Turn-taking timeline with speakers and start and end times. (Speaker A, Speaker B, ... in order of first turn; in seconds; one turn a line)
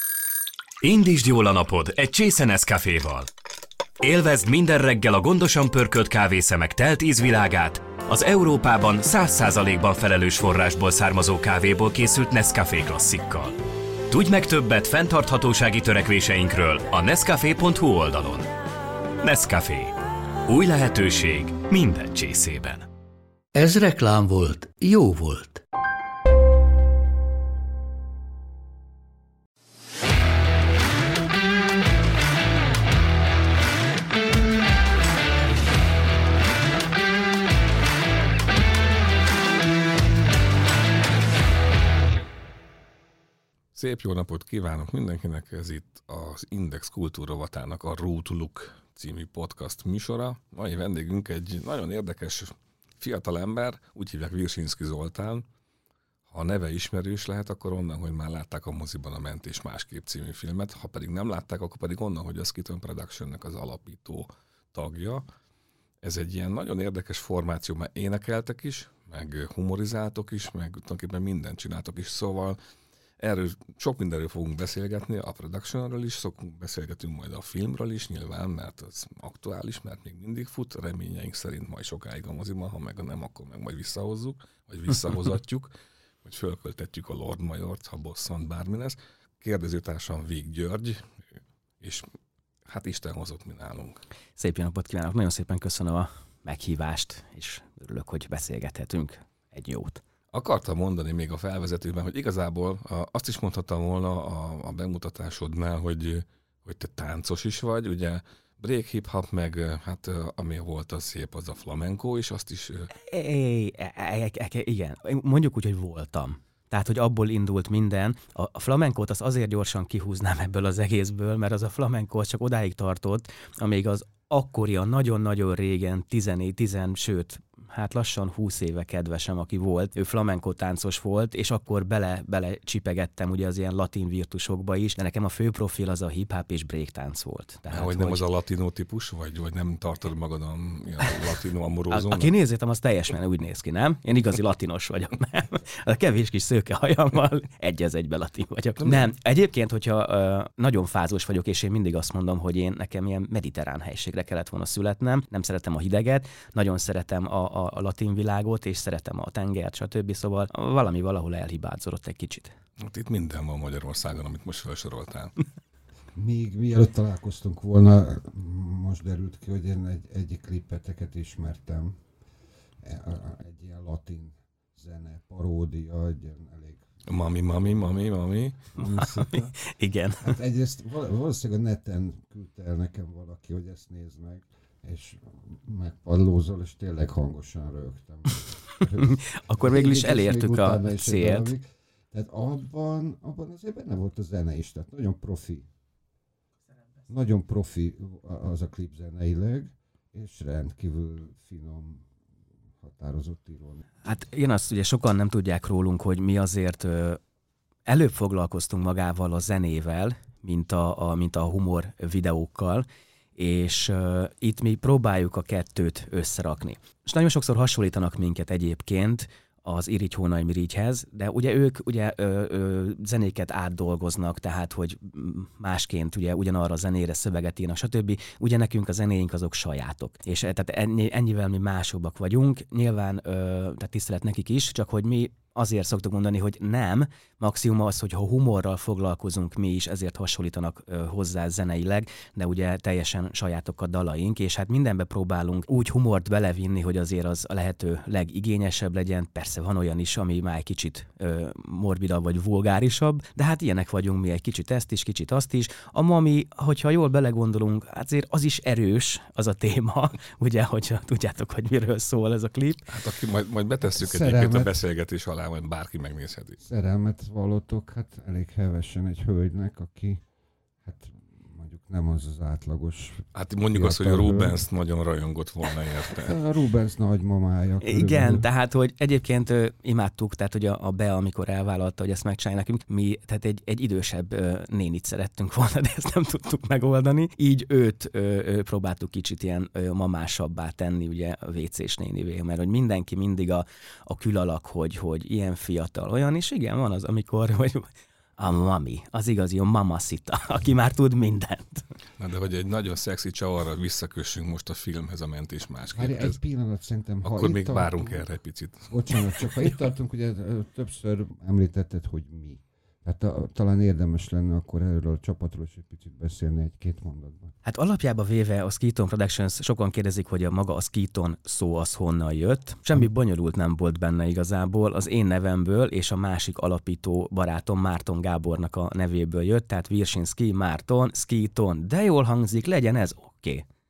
Speaker A: 0.8-3.3
Speaker A: 4.0-13.6
Speaker A: 14.1-18.5
Speaker A: 19.2-19.9
Speaker A: 20.5-22.9
Speaker B: 23.5-25.6
Speaker C: 43.8-55.5
Speaker C: 56.3-65.2
Speaker C: 66.0-72.6
Speaker C: 73.2-85.7
Speaker C: 86.2-91.0
Speaker C: 91.8-92.1
Speaker C: 92.7-94.0
Speaker D: 94.4-100.0
Speaker C: 100.3-112.9
Speaker D: 112.9-138.2
Speaker C: 137.7-142.3
Speaker D: 141.9-162.6
Speaker C: 162.8-165.3
Speaker E: 166.2-172.0
Speaker E: 172.8-176.9
Speaker C: 177.1-178.8
Speaker E: 177.4-178.0
Speaker E: 178.7-179.6
Speaker D: 179.3-180.4
Speaker E: 180.2-195.7
Speaker D: 189.0-191.5
Speaker E: 197.1-202.1
Speaker E: 202.8-203.8
Speaker D: 204.1-207.2
Speaker D: 207.9-262.9
Speaker C: 262.9-266.6
Speaker E: 264.0-264.7
Speaker E: 266.6-270.2
Speaker E: 270.8-274.6
Speaker C: 273.3-276.4
Speaker E: 276.1-278.5
Speaker D: 277.8-301.9
Speaker C: 302.2-306.4
Speaker E: 305.9-308.2
Speaker C: 307.2-309.7
Speaker E: 308.9-317.5
Speaker D: 317.6-333.6